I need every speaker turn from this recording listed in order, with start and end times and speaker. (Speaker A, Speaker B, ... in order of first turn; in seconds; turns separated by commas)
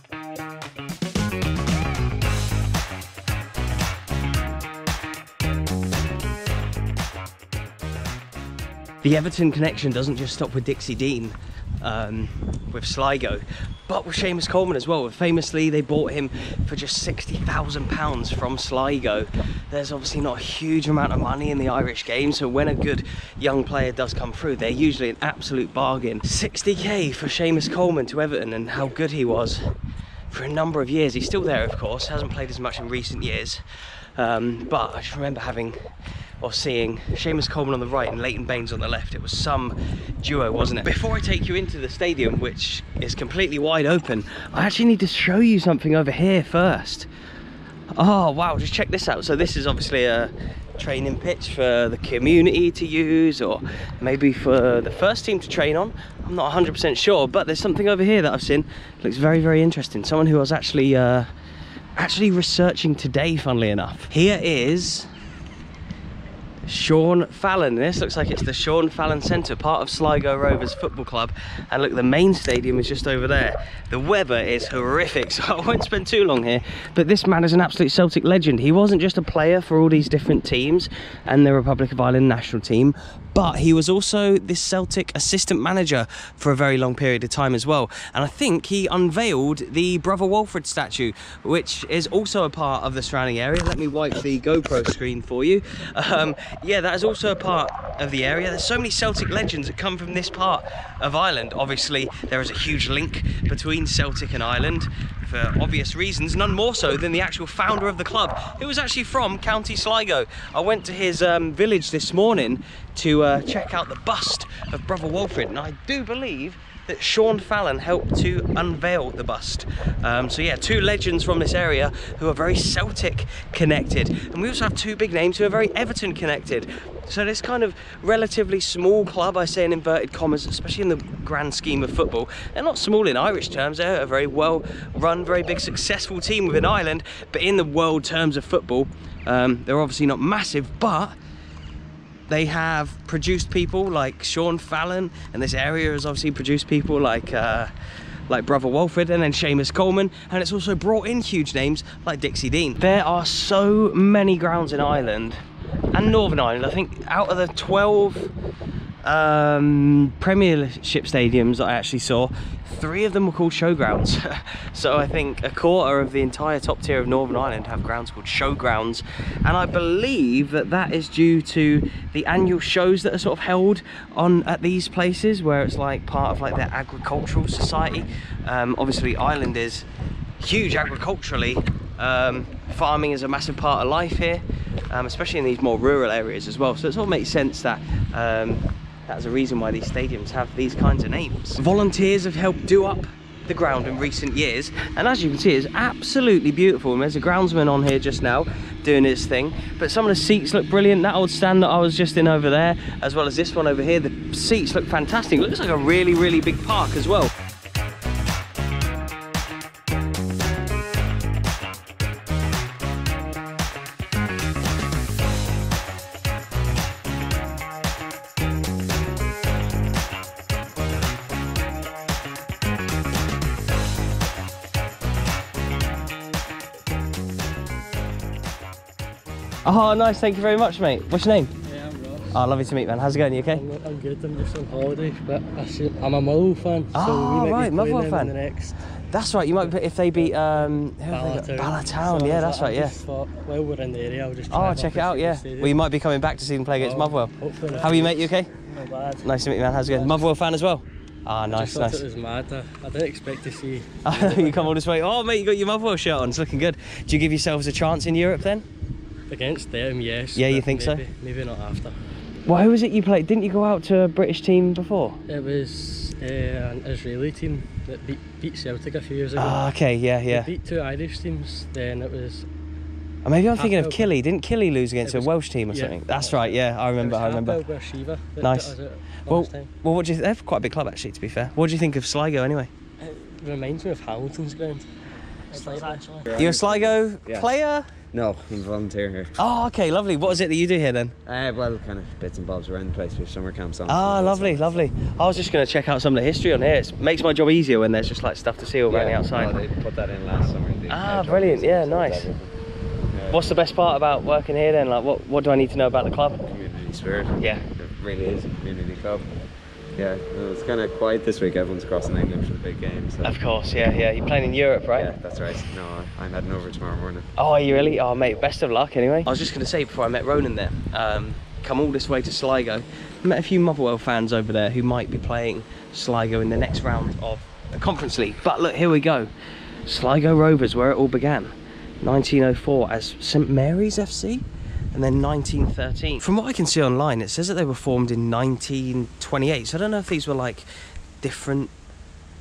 Speaker A: 9.0-29.6, Speaker A: 30.3-33.6, Speaker A: 34.2-35.8, Speaker A: 36.4-47.1, Speaker A: 47.9-61.3, Speaker A: 62.0-65.1, Speaker A: 66.6-141.2, Speaker A: 142.3-147.7, Speaker A: 148.3-155.4, Speaker A: 155.9-158.3, Speaker A: 159.0-179.9, Speaker A: 180.4-207.3, Speaker A: 229.6-231.5, Speaker B: 231.7-232.3, Speaker A: 232.3-233.6, Speaker B: 233.5-238.8, Speaker A: 236.9-238.3, Speaker A: 239.1-243.0, Speaker B: 239.4-245.8, Speaker A: 244.5-248.5, Speaker B: 246.8-249.2, Speaker A: 249.2-252.0, Speaker B: 249.8-250.2, Speaker B: 251.5-254.7, Speaker A: 254.0-258.6, Speaker B: 259.3-262.0, Speaker A: 260.3-261.1, Speaker A: 262.4-265.2, Speaker B: 265.3-269.6, Speaker A: 269.4-270.5, Speaker B: 270.3-272.5, Speaker A: 273.2-277.6, Speaker B: 273.5-274.1, Speaker B: 275.0-279.7, Speaker A: 278.4-278.7, Speaker A: 279.3-282.7, Speaker B: 283.0-284.9, Speaker B: 285.5-286.3, Speaker C: 286.3-287.5, Speaker A: 286.3-287.9, Speaker C: 288.1-289.4, Speaker A: 289.4-291.1, Speaker C: 291.2-294.9, Speaker A: 293.9-299.6, Speaker C: 298.9-302.5, Speaker A: 300.9-302.3, Speaker C: 303.1-303.5, Speaker A: 303.3-306.4, Speaker C: 306.5-309.2, Speaker A: 307.4-307.6, Speaker C: 309.9-313.4, Speaker A: 313.2-315.1, Speaker C: 314.9-317.3, Speaker A: 317.4-329.3, Speaker A: 329.9-340.7, Speaker A: 341.2-341.7